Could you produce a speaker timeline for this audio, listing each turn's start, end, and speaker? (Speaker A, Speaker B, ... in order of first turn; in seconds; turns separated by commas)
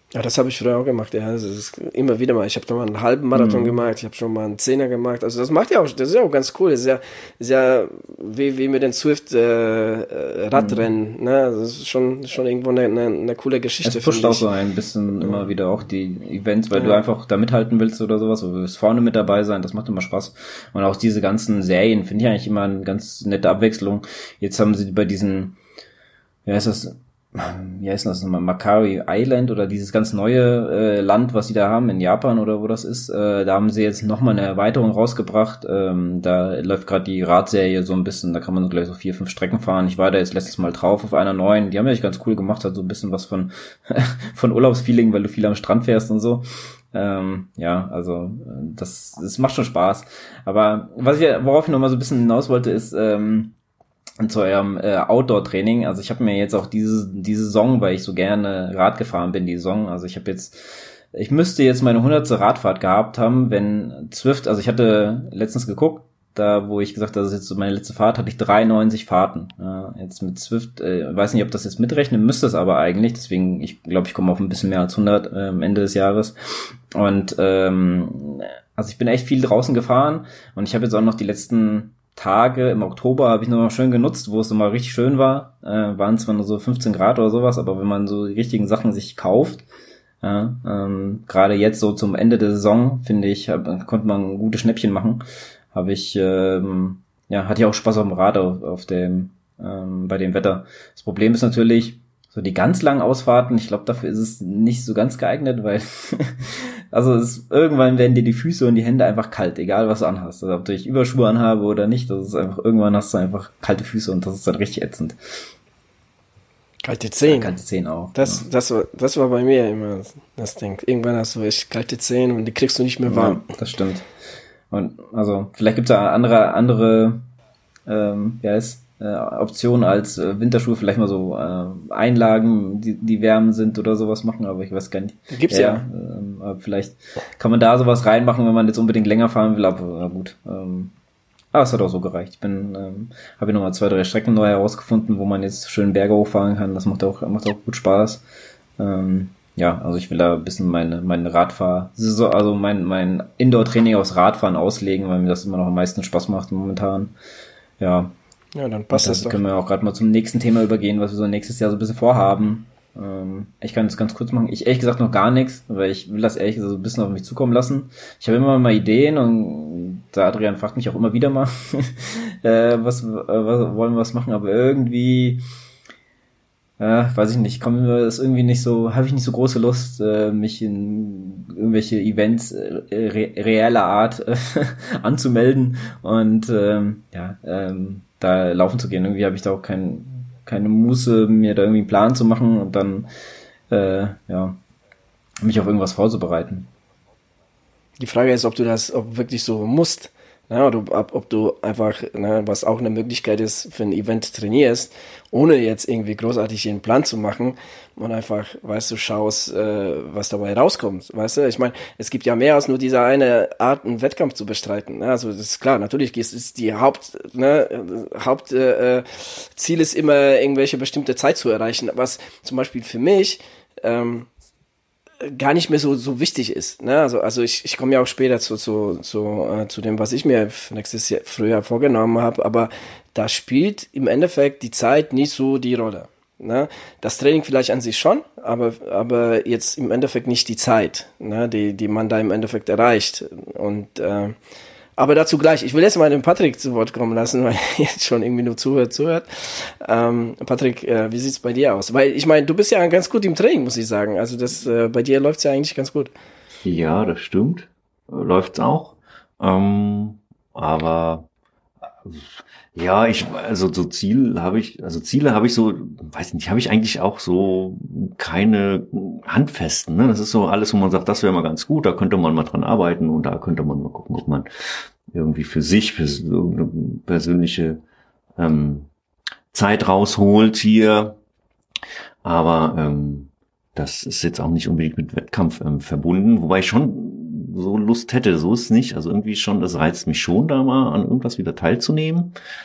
Speaker A: 0.1-14.5, Speaker B: 3.3-3.8, Speaker B: 10.5-10.9, Speaker B: 13.8-25.6, Speaker A: 16.7-17.0, Speaker B: 26.4-53.5, Speaker B: 54.2-89.6, Speaker B: 90.2-115.2, Speaker A: 116.8-117.5, Speaker B: 117.2-118.4, Speaker A: 118.2-123.4, Speaker B: 123.0-124.0, Speaker B: 124.7-127.2, Speaker B: 127.9-140.9, Speaker A: 135.3-135.8, Speaker B: 141.5-148.2, Speaker B: 148.8-157.1, Speaker B: 157.8-158.1, Speaker A: 158.5-159.4, Speaker B: 158.9-175.4, Speaker B: 176.8-193.1, Speaker B: 193.7-194.6, Speaker B: 195.4-196.7, Speaker A: 198.0-224.3, Speaker A: 225.2-244.3, Speaker A: 245.0-256.1, Speaker C: 256.6-261.3, Speaker C: 262.0-277.8, Speaker C: 278.4-278.9, Speaker C: 279.5-281.2, Speaker C: 282.2-292.4